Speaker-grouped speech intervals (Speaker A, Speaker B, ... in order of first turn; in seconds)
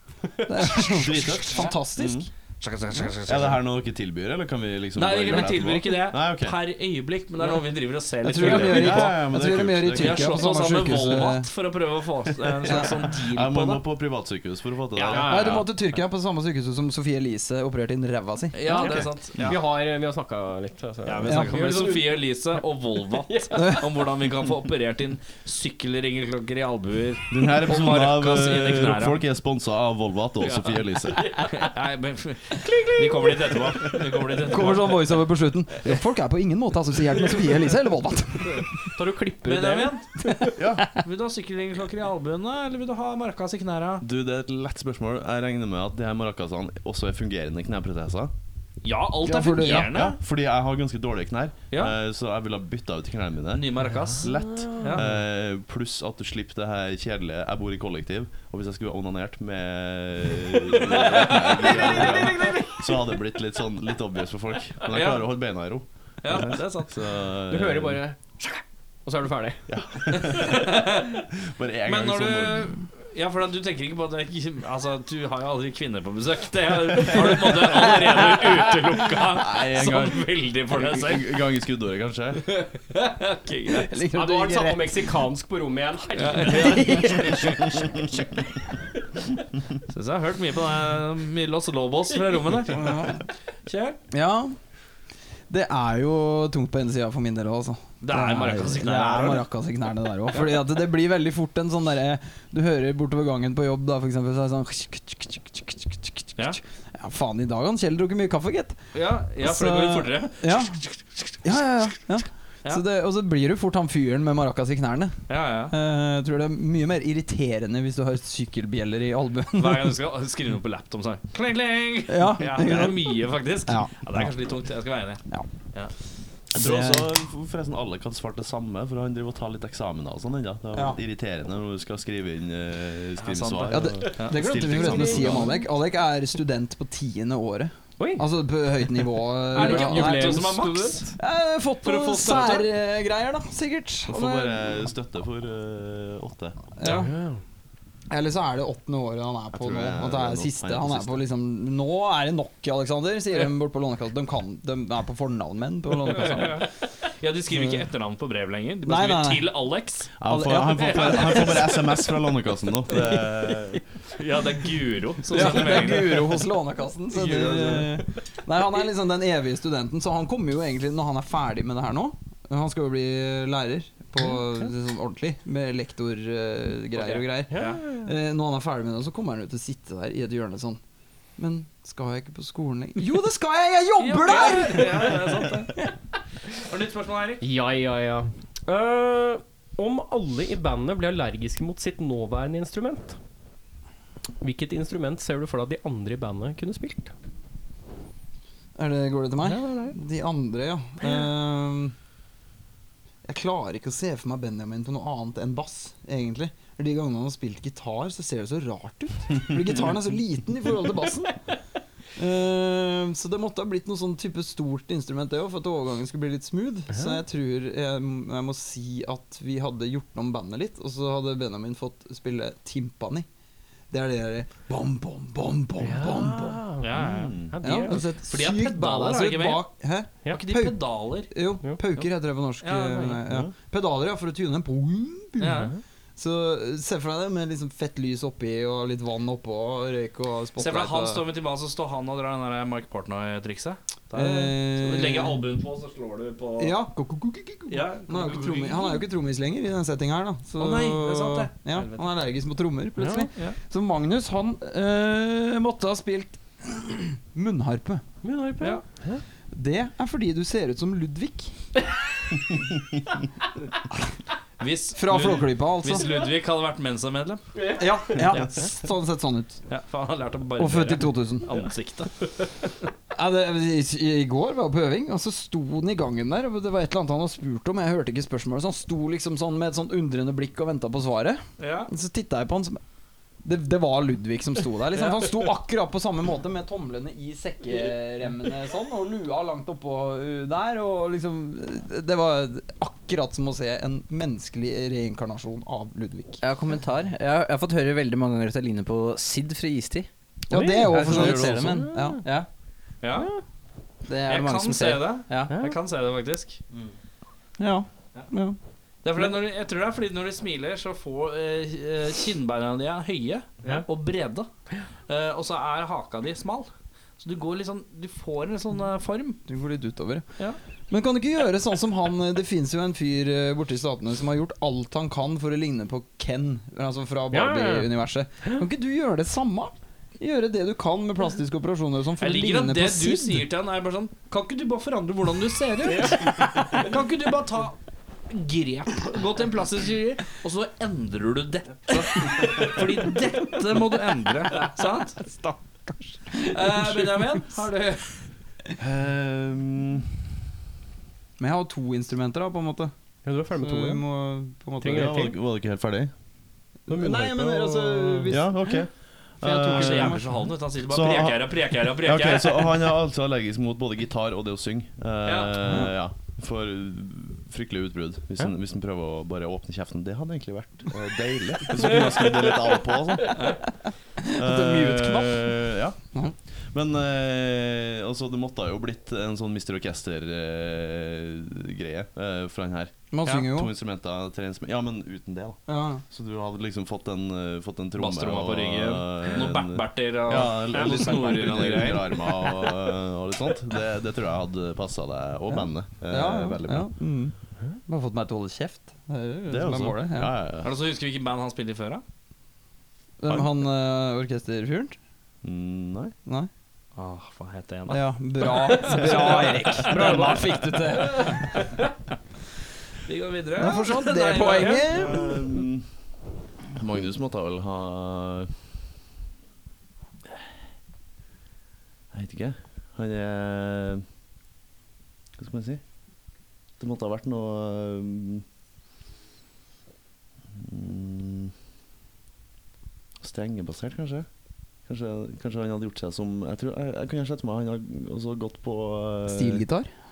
Speaker A: 0.4-2.3, 8.2-11.5, 15.2-18.8, 21.3-21.6, 23.6-23.8, 34.5-38.7, 49.2-50.0, 83.8-85.1, 86.5-87.1, 92.7-93.2, 94.1-94.6, 95.5-108.8, 109.4-110.8, 111.4-120.0, 122.1-124.3, 126.5-127.1, 130.7-131.0, 133.7-140.6, 141.2-144.7, 146.8-147.1, 148.1-156.7, 157.5-157.8, 158.8-159.5, 160.3-162.0, 165.3-180.8, 181.4-185.2, 198.8-201.9, 203.2-211.4, 212.2-223.2, 223.9-226.6, 227.6-241.2, 244.2-245.4, 246.6-258.0, 259.5-261.6, 264.9-266.1, 267.8-269.6, 270.6-271.5, 273.1-282.8, 283.4-296.4, 300.5-302.2, 307.6-308.6, 319.5-320.2, 320.9-333.4, 336.4-336.7, 346.3-347.4, 351.4-352.9, 353.6-355.3, 356.9-358.6, 359.4-360.5, 365.7-365.9, 374.3-375.6, 383.1-383.7, 385.7-386.0, 395.5-397.4, 397.9-400.3, 403.2-405.0, 407.9-411.6, 413.6-415.3, 439.3-439.9
Speaker B: 0.8-2.3, 3.3-6.6, 8.4-10.3, 13.0-15.6, 27.3-31.3, 40.6-40.9, 44.0-48.3, 49.6-68.0, 69.7-70.7, 71.5-72.7, 79.6-80.1, 80.8-82.4, 126.5-135.6, 144.1-146.7, 149.5-151.2, 160.2-163.8, 227.0-227.6, 301.1-301.7, 348.8-350.1, 354.9-356.1, 358.3-373.4, 374.4-376.0, 376.5-396.9, 399.5-400.7, 405.4-406.2, 414.9-415.9, 416.8-418.6, 422.1-424.1, 425.4-425.8, 426.8-428.4, 430.6-431.5, 433.2-434.3, 434.9-439.6
Speaker C: 2.6-3.6, 5.0-9.2, 9.9-13.8, 14.9-15.6, 18.5-19.6, 21.1-29.2, 30.4-30.8, 31.4-35.1, 39.4-40.1, 41.0-44.0, 48.8-50.2, 53.5-55.1, 60.7-63.0, 64.9-65.3, 66.2-66.9, 70.2-71.2, 71.9-81.3, 82.9-83.9, 86.2-87.6, 89.9-93.0, 93.7-94.0, 98.0-99.5, 108.9-111.5, 115.3-115.7, 119.5-125.2, 133.2-135.2, 139.5-141.1, 141.8-142.7, 156.1-160.1, 164.1-166.4, 167.2-167.8, 176.9-177.8, 184.0-185.8, 186.6-187.4, 226.8-227.4, 228.0-229.6, 230.3-231.3, 232.6-233.2, 235.4-235.7, 240.6-246.8, 247.7-249.1, 250.6-252.0, 264.6-267.4, 269.7-272.7, 281.6-281.9, 285.0-285.2, 303.0-303.3, 304.3-306.6, 309.0-314.5, 315.1-319.4, 332.2-337.8, 338.3-345.4, 346.4-348.2, 359.7-362.8, 365.2-365.6, 388.0-392.7, 400.6-402.0, 407.0-410.4, 411.0-411.3, 413.1-415.1
Speaker D: 15.1-15.7, 18.7-22.3, 23.2-23.8, 31.1-31.7, 32.6-34.0, 38.5-40.5, 54.2-55.0, 67.5-69.7, 84.0-87.8, 134.7-135.7, 138.0-138.3, 139.5-141.1, 146.8-147.4, 177.5-178.1, 187.4-193.2, 194.4-197.1, 199.4-199.9, 216.9-217.2, 225.8-226.9, 227.5-228.0, 235.5-235.8, 253.0-253.3, 258.2-259.2, 267.6-267.9, 300.5-302.2, 305.5-305.8, 327.3-327.9, 335.9-336.2, 353.2-354.0, 354.8-355.4, 356.9-358.5, 408.9-410.9
Speaker E: 296.4-300.1, 301.0-301.4, 302.2-302.5, 304.1-305.5